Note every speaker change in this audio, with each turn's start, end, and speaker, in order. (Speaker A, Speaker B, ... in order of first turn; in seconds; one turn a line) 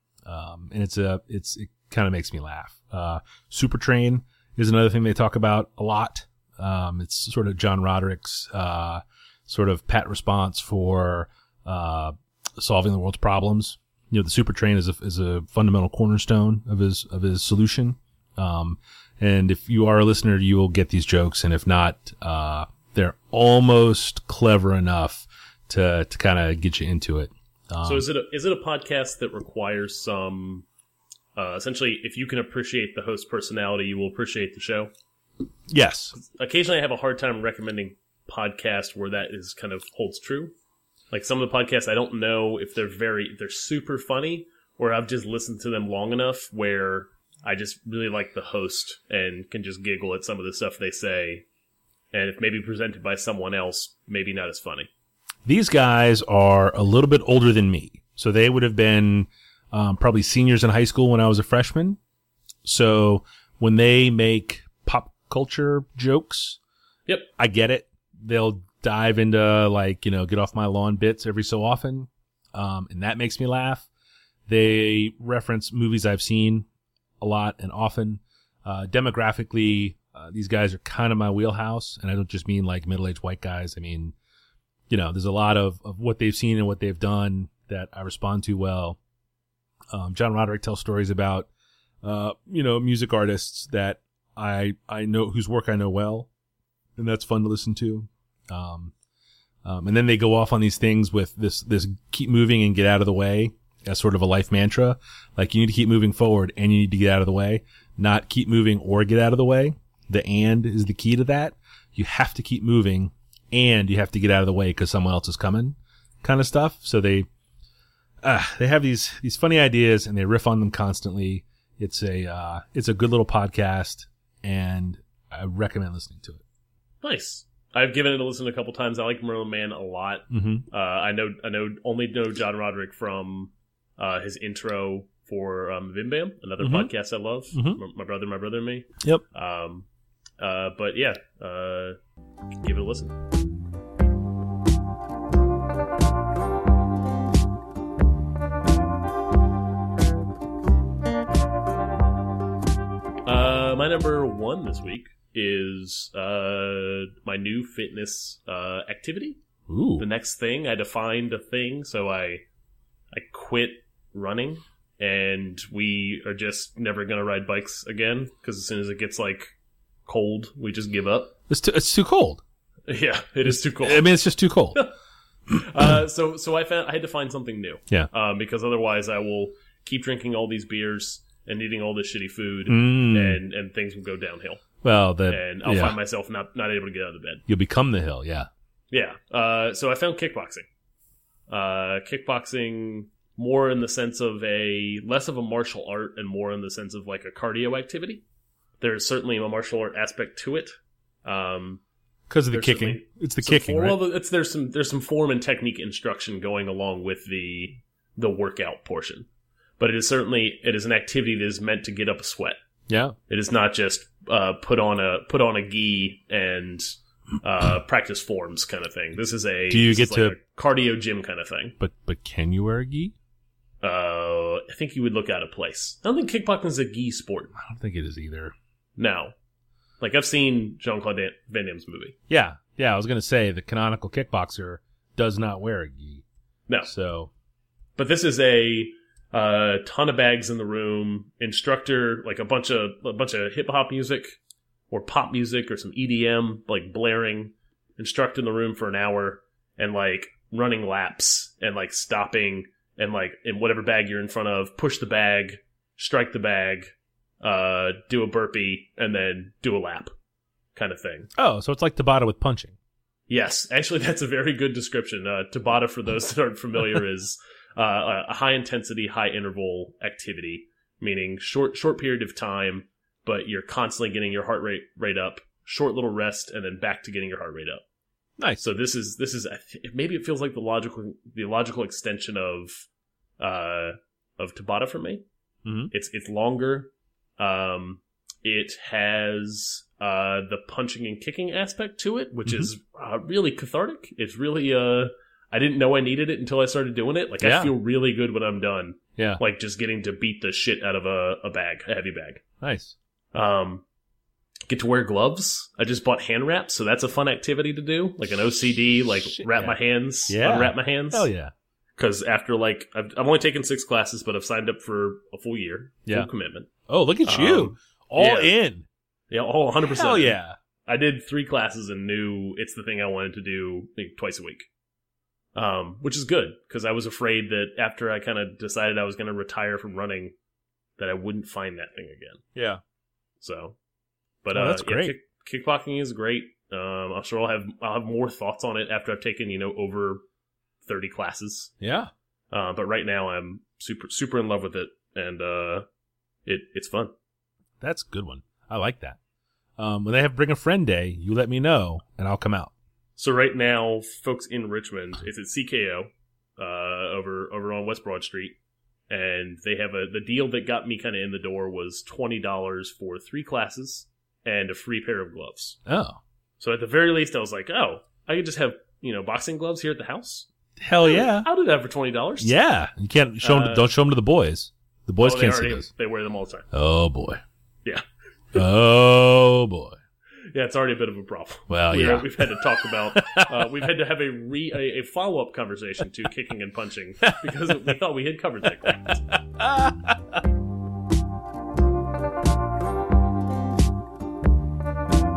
Speaker A: 0.2-28.1
Speaker B: 27.8-30.6
Speaker B: 31.4-34.9
Speaker A: 35.7-36.1
Speaker B: 36.2-40.5
Speaker B: 41.1-51.5
Speaker B: 52.1-54.9
Speaker A: 55.4-62.0
Speaker A: 62.6-66.6
Speaker A: 67.4-73.9
Speaker A: 74.5-76.7
Speaker A: 77.2-84.1
Speaker A: 84.9-89.0
Speaker A: 89.9-91.5
Speaker A: 92.0-96.3
Speaker A: 97.0-98.9
Speaker A: 99.6-117.2
Speaker A: 118.2-126.4
Speaker B: 127.0-139.9
Speaker A: 130.3-130.7
Speaker A: 136.6-136.9
Speaker A: 137.5-137.8
Speaker B: 140.4-141.9
Speaker B: 142.6-143.1
Speaker B: 153.2-159.4
Speaker A: 159.7-160.1
Speaker B: 160.0-162.4
Speaker B: 163.1-169.5
Speaker B: 170.1-171.3
Speaker A: 171.5-172.4
Speaker B: 172.9-174.1
Speaker A: 173.4-174.8
Speaker B: 175.5-184.6
Speaker A: 182.7-183.4
Speaker A: 184.8-186.0
Speaker B: 185.3-187.4
Speaker A: 187.5-188.5
Speaker B: 188.9-190.7
Speaker B: 191.5-198.2
Speaker B: 198.8-200.7
Speaker B: 201.2-201.8
Speaker A: 202.3-204.0
Speaker B: 202.5-209.3
Speaker B: 209.8-212.6
Speaker A: 212.9-213.2
Speaker B: 213.3-221.7
Speaker A: 219.7-220.4
Speaker A: 221.8-223.1
Speaker B: 223.8-227.5
Speaker A: 227.5-228.5
Speaker B: 229.0-229.3
Speaker B: 230.0-232.2
Speaker A: 232.3-236.2
Speaker A: 236.8-237.3
Speaker B: 237.9-244.4
Speaker B: 244.9-256.9
Speaker B: 257.4-260.1
Speaker B: 260.7-261.3
Speaker A: 261.4-262.8
Speaker B: 263.3-277.8
Speaker B: 278.6-282.9
Speaker B: 283.4-285.2
Speaker A: 285.6-285.9
Speaker B: 285.9-302.4
Speaker A: 292.4-292.7
Speaker A: 297.4-297.7
Speaker A: 302.6-302.9
Speaker B: 303.3-303.8
Speaker B: 304.7-311.3
Speaker A: 309.0-309.8
Speaker A: 310.3-311.5
Speaker B: 312.0-316.7
Speaker A: 316.9-318.9
Speaker B: 317.2-318.5
Speaker B: 319.3-324.7
Speaker A: 319.9-320.6
Speaker B: 325.5-330.3
Speaker B: 331.0-332.4
Speaker A: 332.5-332.8
Speaker B: 333.4-333.8
Speaker B: 334.4-340.2
Speaker A: 334.5-335.1
Speaker B: 340.8-341.7
Speaker A: 341.8-342.1
Speaker B: 342.5-345.8
Speaker B: 346.4-347.1
Speaker A: 347.8-349.2
Speaker A: 349.8-352.7
Speaker B: 353.2-358.6
Speaker B: 359.1-365.8
Speaker A: 365.9-366.2
Speaker B: 366.6-370.5
Speaker A: 370.8-371.5
Speaker B: 371.0-372.5
Speaker A: 372.4-375.9
Speaker B: 373.4-373.9
Speaker B: 375.2-376.6
Speaker A: 376.7-377.4
Speaker A: 378.5-380.0
Speaker B: 380.5-389.3
Speaker A: 381.7-383.5
Speaker A: 389.6-390.4